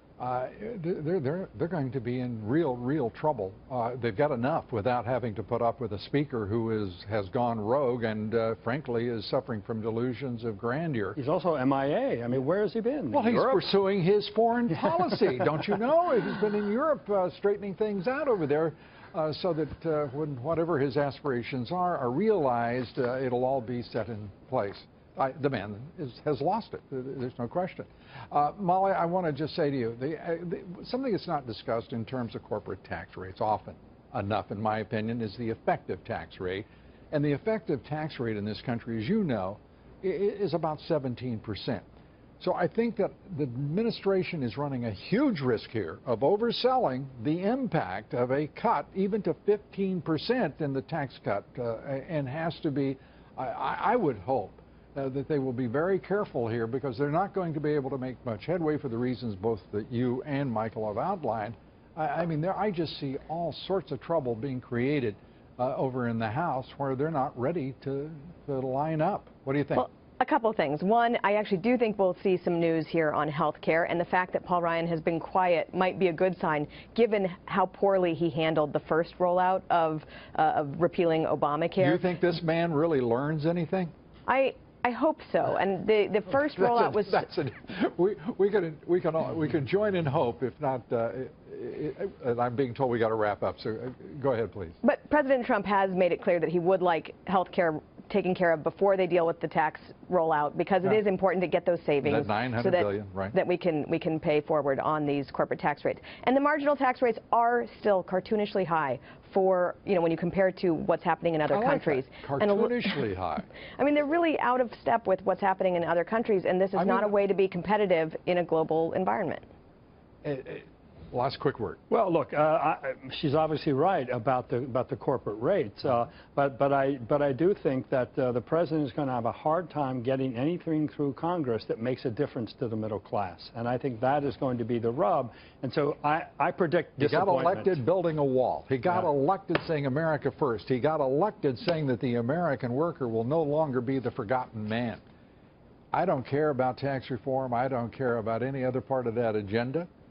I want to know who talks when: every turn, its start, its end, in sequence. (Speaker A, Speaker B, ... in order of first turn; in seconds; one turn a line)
Speaker A: 0.2-11.2
Speaker B: 11.2-13.6
Speaker A: 13.1-41.8
Speaker A: 42.4-69.9
Speaker C: 69.8-82.0
Speaker A: 81.8-83.9
Speaker C: 84.3-87.2
Speaker A: 86.5-94.8
Speaker C: 94.8-113.0
Speaker A: 102.0-103.3
Speaker A: 111.5-113.5
Speaker C: 113.8-119.4
Speaker A: 116.8-117.1
Speaker A: 120.2-121.8
Speaker B: 121.9-137.8
Speaker A: 137.0-145.0
Speaker A: 145.9-149.9